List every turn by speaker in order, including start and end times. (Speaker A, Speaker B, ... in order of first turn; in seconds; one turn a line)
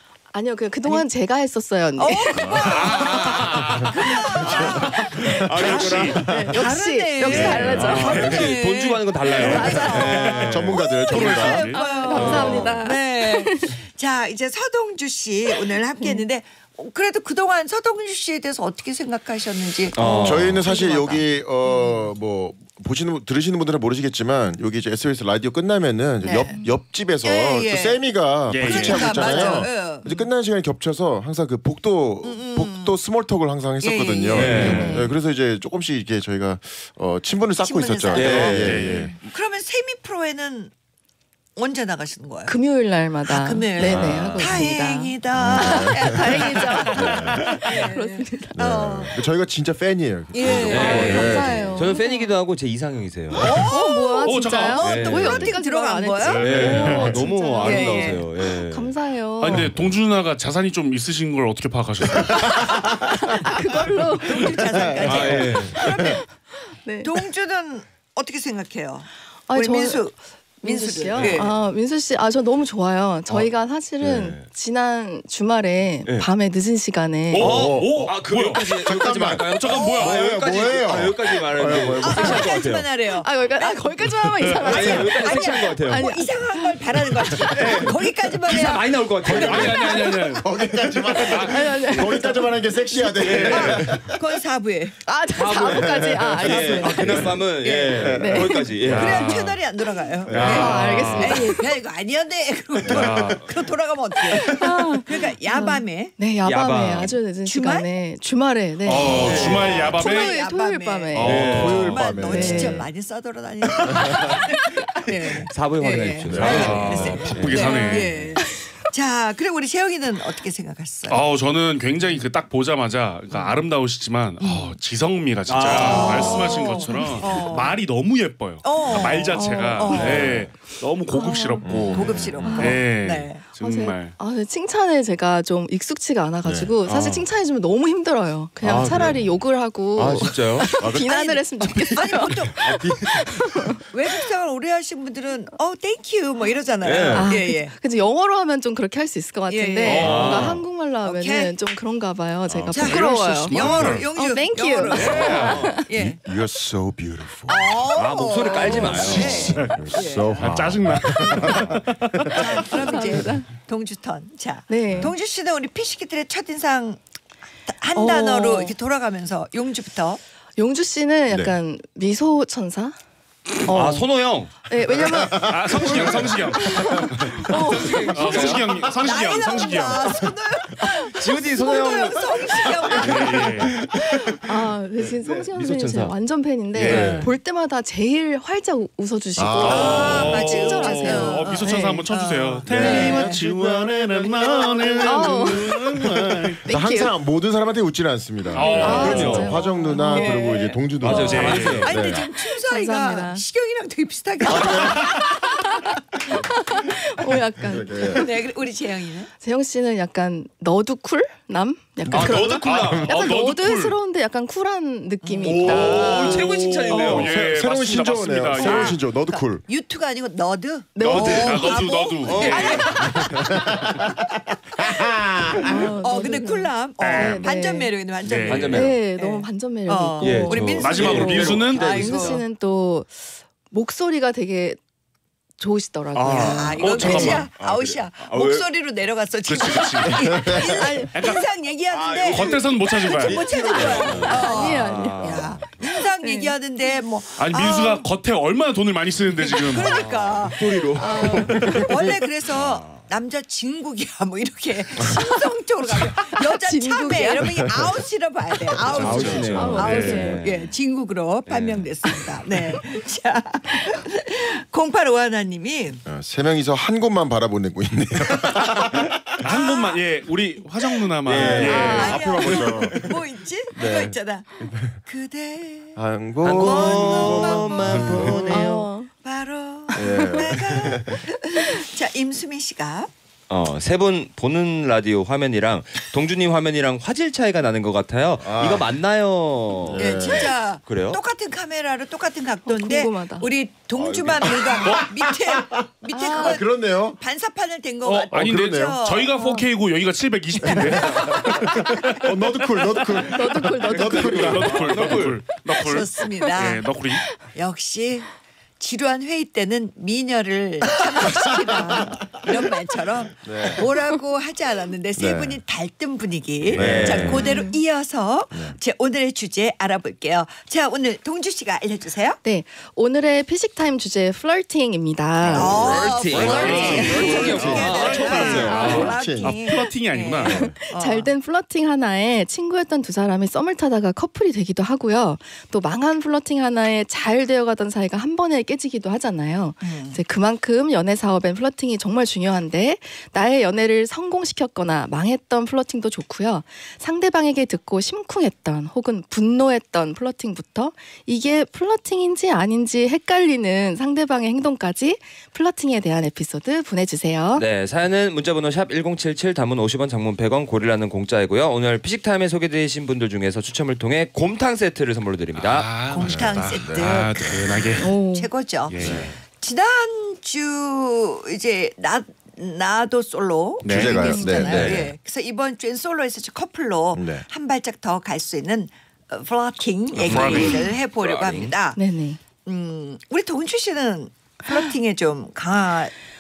Speaker A: 0.3-2.9
Speaker B: 2.0-20.3
Speaker C: 2.6-4.2
Speaker D: 2.9-3.8
Speaker D: 4.4-6.4
Speaker E: 4.5-6.5
Speaker C: 5.5-6.2
Speaker A: 6.3-8.4
Speaker C: 7.2-8.4
Speaker E: 7.3-8.3
Speaker D: 7.4-10.8
Speaker C: 9.2-11.8
Speaker A: 9.5-10.2
Speaker E: 10.2-12.7
Speaker A: 11.7-13.8
Speaker D: 12.1-12.8
Speaker A: 16.0-16.2
Speaker D: 19.9-20.6
Speaker A: 19.9-22.0
Speaker E: 20.2-39.2
Speaker B: 26.2-26.6
Speaker A: 26.5-26.8
Speaker B: 27.2-28.0
Speaker C: 28.5-29.2
Speaker B: 28.6-30.1
Speaker A: 29.2-30.2
Speaker B: 32.2-33.0
Speaker B: 33.8-34.7
Speaker D: 34.3-35.1
Speaker C: 34.4-34.9
Speaker A: 34.6-35.1
Speaker B: 37.6-40.7
Speaker D: 38.1-39.3
Speaker C: 38.6-39.1
Speaker B: 41.6-42.5
Speaker A: 42.5-48.6
Speaker B: 43.3-49.2
Speaker D: 43.8-44.6
Speaker E: 45.3-46.4
Speaker E: 46.9-47.5
Speaker E: 48.6-51.7
Speaker B: 50.3-51.8
Speaker D: 50.5-53.6
Speaker A: 50.8-52.3
Speaker B: 53.3-58.3
Speaker A: 53.7-59.7
Speaker C: 54.2-54.8
Speaker D: 54.8-55.5
Speaker C: 56.2-57.2
Speaker D: 56.4-58.9
Speaker C: 59.4-62.5
Speaker E: 62.1-63.2
Speaker A: 62.3-64.7
Speaker B: 64.2-66.2
Speaker E: 64.4-66.2
Speaker D: 65.0-65.8
Speaker A: 65.8-67.1
Speaker B: 67.0-71.6
Speaker A: 69.5-70.0
Speaker A: 70.6-77.5
Speaker E: 71.2-71.4
Speaker D: 74.0-74.5
Speaker C: 77.3-80.2
Speaker E: 77.4-78.2
Speaker D: 77.4-82.9
Speaker E: 78.8-82.5
Speaker B: 82.0-90.3
Speaker A: 83.2-87.4
Speaker C: 84.4-84.9
Speaker D: 84.6-86.2
Speaker D: 87.5-89.9
Speaker E: 89.2-94.2
Speaker C: 89.3-90.5
Speaker C: 91.2-91.6
Speaker A: 91.4-92.3
Speaker C: 93.2-94.0
Speaker D: 93.2-93.8
Speaker B: 93.4-95.0
Speaker A: 95.0-97.4
Speaker D: 95.4-99.5
Speaker E: 95.5-97.3
Speaker B: 97.6-106.2
Speaker E: 97.9-98.6
Speaker A: 98.2-98.7
Speaker C: 98.8-99.6
Speaker E: 100.3-101.1
Speaker C: 100.3-101.5
Speaker A: 100.4-101.7
Speaker C: 102.9-103.5
Speaker A: 104.5-111.3
Speaker D: 106.4-107.3
Speaker B: 107.5-107.9
Speaker C: 108.9-110.4
Speaker B: 109.2-121.2
Speaker D: 109.2-110.0
Speaker C: 111.1-112.0
Speaker D: 111.2-112.0
Speaker E: 111.3-112.9
Speaker A: 112.2-112.8
Speaker E: 113.9-114.4
Speaker D: 115.5-118.4
Speaker E: 116.2-117.5
Speaker C: 116.4-118.1
Speaker A: 117.6-118.7
Speaker C: 121.1-134.1
Speaker A: 124.4-124.8
Speaker D: 125.5-126.5
Speaker B: 125.7-127.8
Speaker A: 126.1-127.5
Speaker B: 128.6-130.4
Speaker A: 129.3-130.1
Speaker D: 130.0-130.5
Speaker E: 130.1-130.4
Speaker A: 131.1-131.7
Speaker E: 131.7-132.8
Speaker B: 131.9-133.4
Speaker A: 132.4-132.8
Speaker A: 133.6-144.2
Speaker E: 136.4-136.7
Speaker D: 136.9-137.2
Speaker D: 138.6-139.3
Speaker D: 140.0-141.0
Speaker B: 140.8-141.4
Speaker D: 141.7-143.5
Speaker B: 141.9-142.7
Speaker B: 143.8-147.7
Speaker D: 146.8-147.3
Speaker A: 147.1-153.6
Speaker B: 149.5-150.3
Speaker C: 149.8-150.6
Speaker D: 149.9-150.6
Speaker B: 151.0-151.6
Speaker E: 152.5-153.0
Speaker B: 152.7-156.2
Speaker C: 152.9-154.1
Speaker E: 153.7-153.9
Speaker A: 154.1-155.8
Speaker C: 154.9-155.7
Speaker D: 154.9-155.8
Speaker E: 155.9-157.9
Speaker B: 157.5-160.5
Speaker D: 157.9-159.6
Speaker E: 158.7-162.5
Speaker C: 159.6-162.4
Speaker B: 161.2-161.7
Speaker B: 162.3-167.0
Speaker A: 162.6-163.5
Speaker A: 164.7-165.1
Speaker B: 167.7-170.2
Speaker A: 167.9-168.8
Speaker A: 170.6-173.0
Speaker E: 171.3-171.6
Speaker A: 173.6-175.5
Speaker D: 173.7-174.5
Speaker E: 175.0-177.3
Speaker C: 175.4-177.4
Speaker A: 176.6-178.7
Speaker D: 177.2-178.9
Speaker C: 178.1-180.2
Speaker B: 179.0-183.7
Speaker D: 181.2-182.3
Speaker C: 183.0-183.8
Speaker D: 183.3-183.8
Speaker E: 183.7-184.3
Speaker A: 184.3-192.1
Speaker D: 185.2-186.2
Speaker C: 186.7-187.3
Speaker E: 186.8-187.3
Speaker D: 186.9-187.2
Speaker E: 189.4-190.5
Speaker C: 189.6-196.6
Speaker B: 189.6-193.4
Speaker E: 192.7-202.3
Speaker A: 195.0-195.8
Speaker A: 196.7-197.1
Speaker C: 198.5-199.5
Speaker B: 198.6-199.4
Speaker A: 198.8-200.7
Speaker D: 198.9-199.5
Speaker B: 199.9-205.7
Speaker D: 201.0-202.1
Speaker C: 201.1-202.0
Speaker A: 202.3-203.4
Speaker E: 204.5-205.1
Speaker A: 204.6-208.3
Speaker C: 204.8-205.2
Speaker E: 207.6-208.3
Speaker B: 208.1-209.3
Speaker A: 209.4-216.4
Speaker E: 212.1-213.0
Speaker D: 212.1-213.1
Speaker C: 212.6-214.0
Speaker D: 215.4-217.3
Speaker E: 215.6-219.7
Speaker C: 215.6-219.0
Speaker B: 216.1-216.5
Speaker B: 218.6-219.0
Speaker B: 219.6-223.6
Speaker A: 221.0-221.7
Speaker D: 221.1-223.3
Speaker C: 221.1-223.0
Speaker E: 223.1-224.0
Speaker E: 224.8-225.9
Speaker A: 225.6-227.9
Speaker B: 226.0-232.4
Speaker C: 227.0-227.5
Speaker C: 228.2-228.8
Speaker D: 228.4-229.0
Speaker A: 228.7-234.8
Speaker D: 230.2-232.4
Speaker C: 230.8-231.9
Speaker E: 231.1-231.7
Speaker A: 235.6-237.4
Speaker D: 236.1-238.7
Speaker B: 236.3-248.1
Speaker C: 236.8-237.5
Speaker C: 239.5-240.4
Speaker E: 240.2-240.9
Speaker A: 240.5-241.3
Speaker C: 241.1-241.4
Speaker D: 241.9-245.6
Speaker C: 242.3-245.6
Speaker A: 244.2-246.5
Speaker C: 247.4-250.1
Speaker B: 249.5-266.0
Speaker D: 249.8-252.0
Speaker A: 251.0-251.9
Speaker D: 252.5-253.1
Speaker A: 256.5-257.5
Speaker E: 257.4-257.9
Speaker C: 258.9-260.3
Speaker D: 258.9-260.8
Speaker E: 259.1-259.4
Speaker A: 259.5-260.4
Speaker D: 261.5-261.9
Speaker E: 266.1-269.5
Speaker C: 269.4-272.9
Speaker B: 269.4-270.0
Speaker D: 271.3-272.1
Speaker B: 271.3-276.0
Speaker E: 271.3-275.0
Speaker A: 271.4-272.2
Speaker E: 276.0-278.5
Speaker D: 276.4-278.9
Speaker B: 276.6-283.1
Speaker A: 278.5-279.1
Speaker A: 279.9-280.4
Speaker E: 280.0-281.2
Speaker D: 283.5-291.2
Speaker E: 288.4-288.9
Speaker E: 289.8-290.5
Speaker B: 290.0-299.4
Speaker A: 292.7-293.5
Speaker D: 294.0-294.6
Speaker E: 294.0-297.2
Speaker A: 296.1-296.6
Speaker C: 298.1-303.2
Speaker E: 298.3-299.0
Speaker A: 299.4-299.6
Speaker E: 300.6-305.2
Speaker B: 300.6-301.9
Speaker A: 303.2-304.6
Speaker D: 303.9-305.4
Speaker C: 304.1-307.3
Speaker B: 305.8-306.9
Speaker B: 307.4-308.3
Speaker B: 308.8-322.4
Speaker E: 313.4-313.8
Speaker E: 315.2-315.6
Speaker E: 316.6-317.5
Speaker D: 316.8-317.5
Speaker A: 317.3-317.8
Speaker E: 318.5-318.8
Speaker A: 322.4-325.8
Speaker E: 325.4-329.6
Speaker D: 325.5-329.1
Speaker B: 325.5-331.3
Speaker C: 326.2-330.6
Speaker A: 326.8-327.4
Speaker A: 328.6-329.2
Speaker A: 330.4-357.6
Speaker B: 339.8-340.2
Speaker D: 357.6-366.0
Speaker C: 365.6-368.1
Speaker B: 366.0-382.0
Speaker E: 366.2-367.9
Speaker A: 368.0-368.5
Speaker C: 368.9-369.4
Speaker E: 369.0-369.4
Speaker C: 373.8-374.2
Speaker E: 373.8-375.1
Speaker A: 374.1-374.9
Speaker D: 374.7-375.1
Speaker E: 377.1-377.4
Speaker E: 380.2-380.7
Speaker D: 380.3-381.7
Speaker C: 380.3-380.9
Speaker A: 382.0-382.4
Speaker B: 382.6-386.1